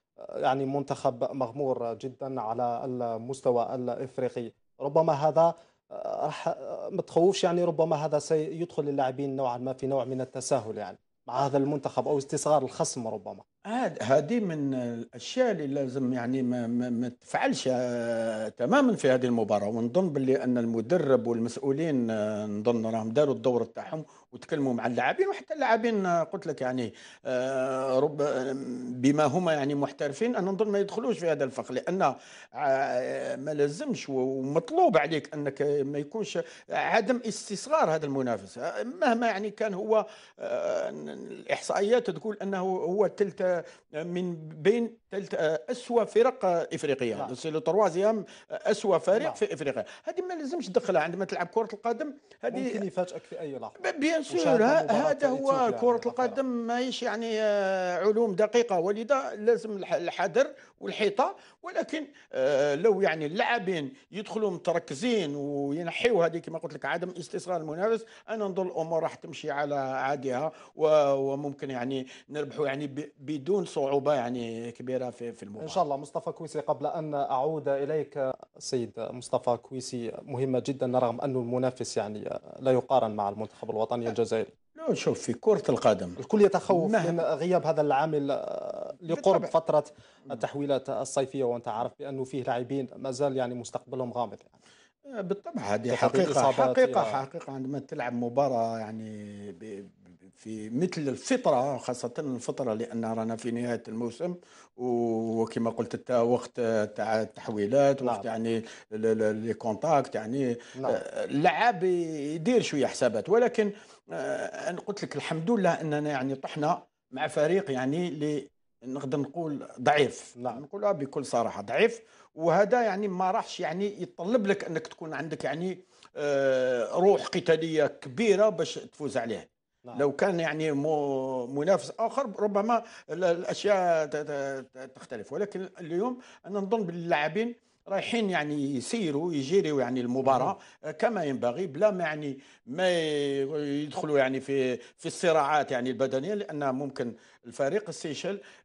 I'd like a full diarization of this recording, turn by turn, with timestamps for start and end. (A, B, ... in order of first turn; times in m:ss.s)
0:00.4-0:13.4 A
0:13.7-0:52.8 B
0:49.2-0:49.4 A
0:52.5-0:56.4 A
0:53.8-1:15.8 B
1:15.6-1:24.5 A
1:24.8-1:26.2 B
1:26.2-1:34.6 A
1:26.7-1:27.2 B
1:29.1-1:29.5 B
1:35.1-2:28.4 B
1:35.9-1:37.2 A
2:00.4-2:00.6 A
2:20.2-2:20.5 A